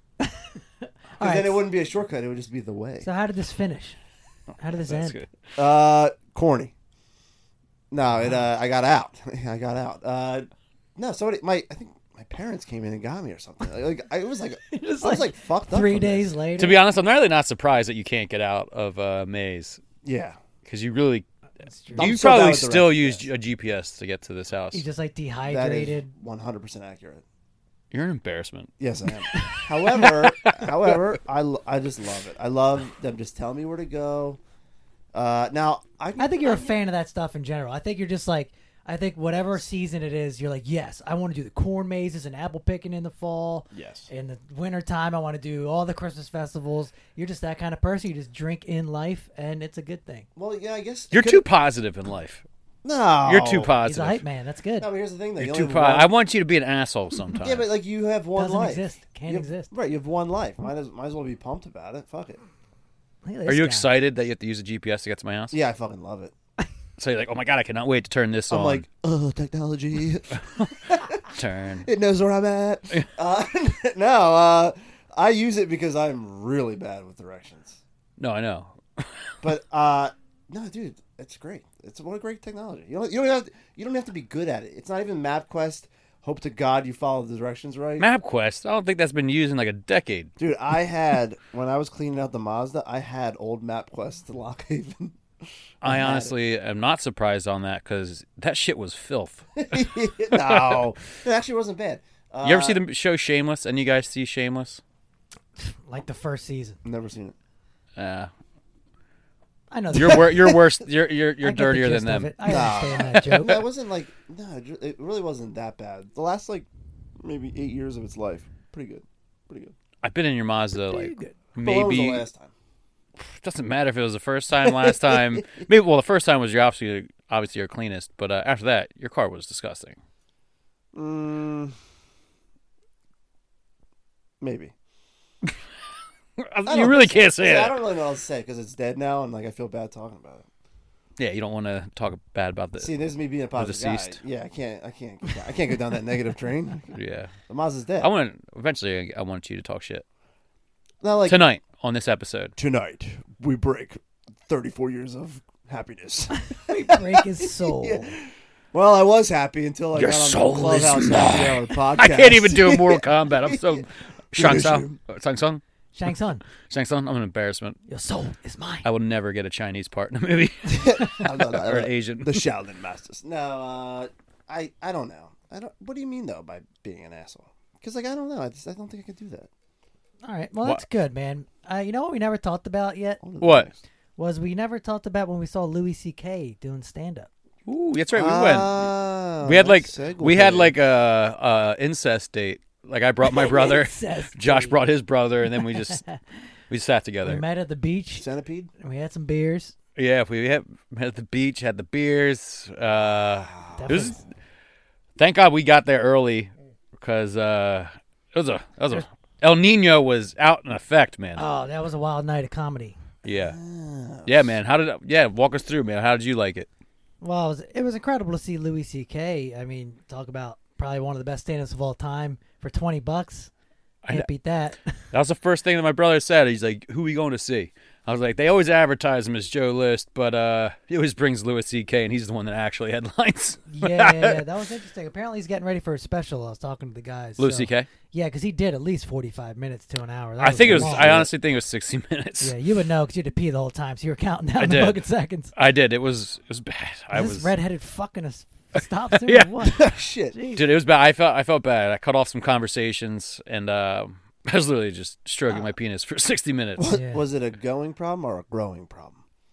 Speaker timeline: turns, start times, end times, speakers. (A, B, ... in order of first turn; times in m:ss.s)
0:00.2-0:01.7 A
0:01.2-0:03.1 B
0:03.0-0:04.0 A
0:04.6-0:05.2 A
0:04.7-0:05.3 C
0:05.6-0:06.7 B
0:07.9-0:16.3 B
0:14.7-0:16.8 A
0:16.6-0:19.8 C
0:20.0-0:20.4 B
0:20.6-0:21.2 C
0:21.6-0:22.1 A
0:21.9-0:24.8 C
0:21.9-0:23.3 B
0:24.7-0:26.1 A
0:25.5-0:27.2 B
0:27.9-0:28.7 C
0:28.8-0:34.4 B
0:29.3-0:30.0 A
0:35.1-0:36.8 B
0:36.2-0:50.3 A
0:43.7-0:44.1 B
0:50.4-0:51.4 B
0:51.1-0:52.4 C
0:52.8-0:53.7 B
0:53.2-0:54.2 C
0:53.8-0:54.9 A
0:54.8-0:56.1 B
0:55.4-0:57.6 C
0:57.4-1:02.4 B
0:58.3-0:59.7 A
1:03.2-1:03.9 A
1:03.4-1:05.6 C
1:05.5-1:06.3 B
1:07.0-1:08.8 C
1:08.5-1:11.3 B
1:10.4-1:11.9 C
1:11.8-1:17.8 B
1:18.2-1:19.3 C
1:19.4-1:28.1 B
1:28.0-1:30.3 C
1:30.4-1:35.2 B
1:35.8-1:39.8 C
1:35.8-1:36.3 B
1:39.6-1:42.8 B
1:40.3-1:40.9 C
1:42.4-1:44.8 C
1:45.6-1:46.8 A
1:46.8-1:47.3 B
1:48.0-1:48.3 C
1:49.7-1:50.5 A
1:49.9-1:52.8 C
1:51.4-1:53.6 A
1:52.4-1:56.7 B
1:57.2-1:59.8 B
2:00.0-2:02.3 C
2:00.8-2:01.4 A
2:01.6-2:02.5 B
2:03.2-2:10.0 C
2:04.6-2:05.4 B
2:10.9-2:11.8 B
2:14.4-2:14.7 B
2:16.4-2:17.7 C
2:16.6-2:20.5 B
2:21.2-2:22.9 C
2:22.8-2:27.0 B
2:23.5-2:24.2 C
2:26.9-2:27.3 C
2:27.5-2:28.1 B
2:28.0-2:30.0 C
2:31.0-2:31.4 B
2:31.3-2:32.5 C
2:32.6-2:38.2 B
2:36.3-2:38.2 A
2:38.7-2:45.0 B
2:39.9-2:45.6 C
2:45.9-2:46.4 A
2:46.6-2:47.8 C
2:47.9-2:48.8 A
2:48.8-2:52.4 C
2:50.7-2:59.5 B
3:00.2-3:03.2 A
3:03.2-3:03.8 B
3:03.4-3:03.7 C
3:04.2-3:07.3 A
3:07.6-3:08.9 C
3:08.1-3:10.7 B
3:09.4-3:16.0 C
3:13.3-3:14.8 A
3:15.5-3:16.2 A
3:16.7-3:17.4 C
3:17.2-3:18.3 A
3:18.1-3:18.7 B
3:18.8-3:19.7 A
3:20.0-3:24.2 C
3:23.0-3:24.2 B
3:23.8-3:24.2 A
3:25.2-3:31.4 C
3:31.4-3:33.0 A
3:33.2-3:33.6 C
3:33.3-3:34.6 B
3:34.2-3:36.7 C
3:37.2-3:43.5 A
3:44.1-3:45.0 A
3:45.1-3:54.4 C
3:53.7-4:01.2 A
3:57.4-3:57.9 C
4:00.4-4:02.5 C
4:00.6-4:01.3 B
4:02.4-4:05.5 A
4:04.6-4:05.0 C
4:05.5-4:07.5 C
4:07.1-4:10.6 A
4:09.2-4:09.8 C
4:09.7-4:10.4 B
4:10.5-4:16.9 C
4:16.8-4:19.2 B
4:16.9-4:17.2 A